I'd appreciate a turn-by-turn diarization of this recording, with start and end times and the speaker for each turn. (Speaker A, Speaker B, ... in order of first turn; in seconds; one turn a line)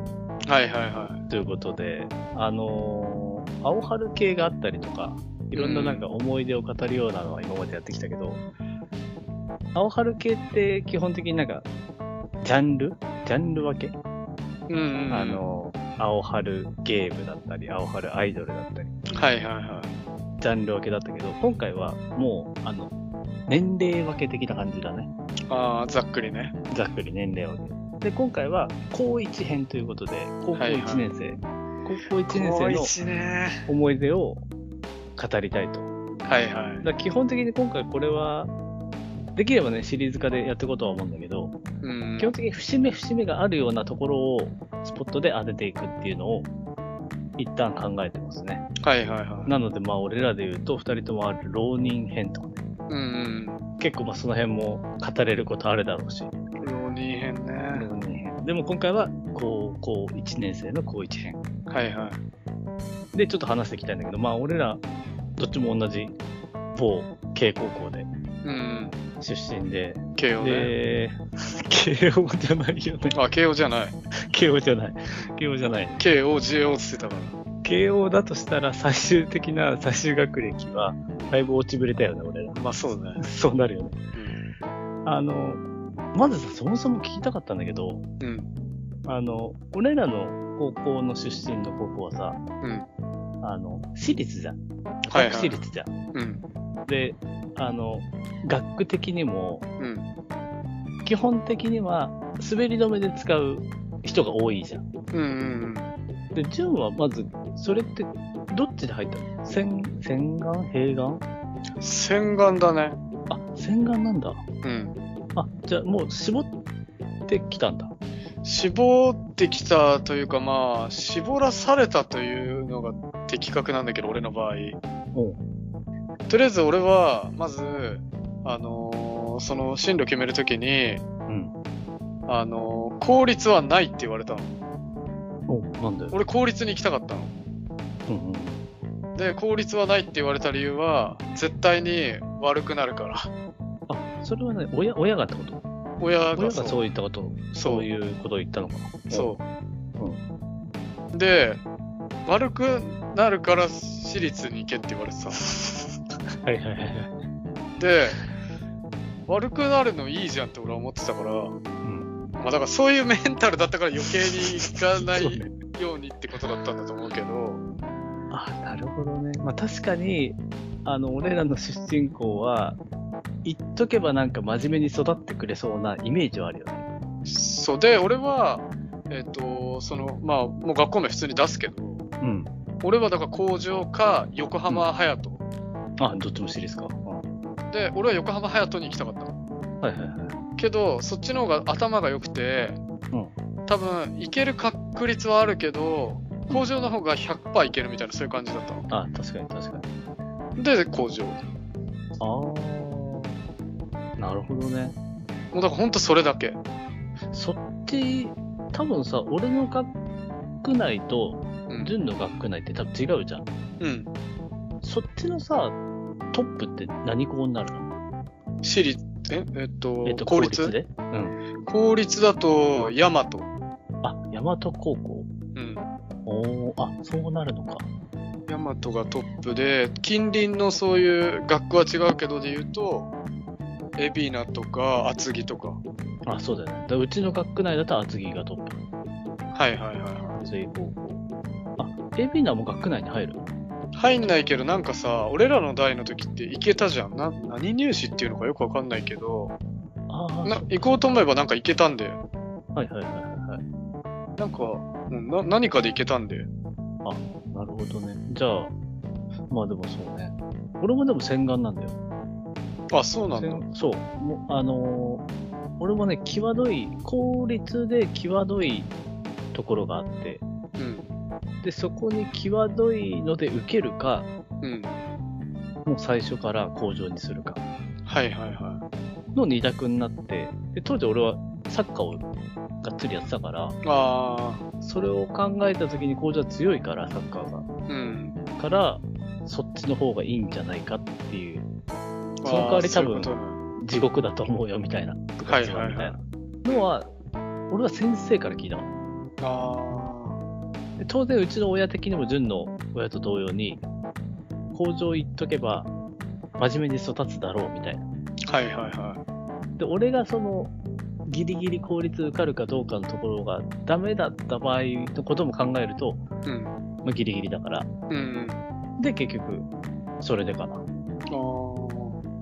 Speaker A: 0.5-1.2
Speaker B: 1.3-8.4
Speaker A: 5.5-6.0
Speaker B: 9.7-11.7
Speaker B: 12.4-13.9
Speaker A: 14.7-15.4
Speaker B: 15.1-19.3
Speaker A: 19.1-19.9
Speaker B: 20.4-22.9
Speaker B: 23.5-25.1
Speaker A: 25.5-26.5
Speaker B: 26.7-32.9
Speaker A: 30.5-31.1
Speaker A: 32.3-33.6
Speaker B: 33.6-34.4
Speaker B: 35.1-35.9
Speaker A: 36.2-36.8
Speaker B: 36.8-38.5
Speaker B: 39.3-41.5
Speaker A: 41.8-42.3
Speaker B: 42.2-46.5
Speaker B: 47.4-48.7
Speaker A: 48.8-49.5
Speaker B: 49.5-52.6
Speaker A: 52.9-53.6
Speaker B: 53.8-56.3
Speaker A: 56.6-57.9
Speaker B: 57.7-61.4
Speaker A: 61.7-62.2
Speaker B: 63.1-64.8
Speaker B: 65.4-66.1
Speaker B: 66.7-68.1
Speaker A: 68.4-69.0
Speaker B: 69.2-73.2
Speaker A: 70.2-70.7
Speaker A: 73.1-73.9
Speaker B: 74.2-76.0
Speaker A: 76.0-77.3
Speaker B: 77.6-82.6
Speaker A: 82.5-83.2
Speaker B: 83.2-84.0
Speaker B: 85.0-85.6
Speaker B: 86.1-88.0
Speaker A: 88.2-88.5
Speaker B: 89.0-92.4
Speaker A: 92.6-92.9
Speaker B: 93.4-94.6
Speaker A: 95.1-95.6
Speaker B: 95.1-95.9
Speaker A: 96.1-96.4
Speaker B: 96.8-99.7
Speaker A: 99.8-100.0
Speaker B: 101.0-104.8
Speaker A: 105.1-105.9
Speaker B: 106.3-111.2
Speaker A: 111.8-113.0
Speaker B: 113.3-114.4
Speaker A: 114.6-114.9
Speaker B: 115.3-116.5
Speaker B: 117.3-117.9
Speaker A: 118.4-124.8
Speaker B: 125.1-125.4
Speaker A: 126.3-131.0
Speaker B: 131.3-131.5
Speaker A: 132.3-134.5
Speaker B: 135.5-136.2
Speaker A: 136.1-137.3
Speaker B: 138.1-138.6
Speaker A: 139.2-143.3
Speaker B: 143.9-145.6
Speaker A: 146.0-146.8
Speaker B: 146.3-149.3
Speaker A: 147.6-147.9
Speaker A: 149.1-149.4
Speaker A: 151.1-151.6
Speaker A: 152.2-155.4
Speaker B: 156.4-157.1
Speaker A: 157.8-158.2
Speaker A: 159.3-161.6
Speaker B: 161.8-162.1
Speaker A: 162.4-167.6
Speaker B: 164.6-165.5
Speaker B: 168.3-172.8
Speaker B: 173.4-176.8
Speaker A: 177.2-182.0
Speaker B: 182.2-182.5
Speaker A: 182.8-185.4
Speaker B: 186.0-187.2
Speaker A: 187.7-189.3
Speaker B: 189.8-190.3
Speaker A: 190.6-192.8
Speaker A: 193.7-198.8
Speaker B: 198.9-199.9
Speaker A: 200.6-201.4
Speaker B: 202.2-203.3
Speaker B: 204.2-204.9
Speaker A: 205.5-206.6
Speaker B: 207.3-209.9
Speaker B: 210.6-213.5
Speaker A: 213.8-214.1
Speaker B: 214.8-215.8
Speaker B: 216.3-217.9
Speaker A: 218.6-220.7
Speaker B: 220.0-221.4
Speaker A: 221.7-223.5
Speaker B: 224.0-225.3
Speaker A: 225.5-225.8
Speaker B: 226.2-227.9
Speaker A: 228.5-233.1
Speaker A: 234.0-235.8
Speaker B: 236.2-238.8
Speaker A: 239.5-240.4
Speaker B: 240.3-241.2
Speaker B: 241.8-243.5
Speaker A: 243.9-249.5
Speaker B: 250.1-251.1
Speaker A: 250.4-252.2
Speaker B: 252.7-253.6
Speaker A: 254.4-256.5
Speaker B: 257.0-258.7
Speaker B: 259.5-261.9
Speaker A: 262.9-263.6
Speaker B: 263.3-265.2
Speaker B: 265.8-268.9
Speaker B: 269.5-270.4
Speaker A: 270.8-271.1
Speaker B: 271.6-274.3
Speaker A: 274.6-274.9
Speaker B: 275.8-277.6
Speaker A: 278.1-278.8
Speaker B: 279.3-282.2
Speaker B: 282.8-283.8
Speaker A: 283.8-284.6
Speaker B: 284.8-287.7
Speaker A: 287.9-288.4
Speaker B: 288.6-291.6
Speaker A: 292.4-293.6
Speaker B: 292.4-297.1
Speaker A: 295.4-296.9
Speaker B: 297.7-298.9
Speaker A: 299.4-300.4
Speaker B: 301.0-303.8
Speaker B: 304.7-305.9
Speaker B: 306.6-308.1
Speaker A: 308.5-309.2
Speaker B: 309.8-310.7
Speaker B: 311.2-316.2
Speaker A: 316.4-316.7
Speaker B: 317.0-317.9
Speaker A: 318.1-318.6
Speaker B: 319.0-319.7
Speaker B: 320.2-320.8
Speaker A: 321.3-322.2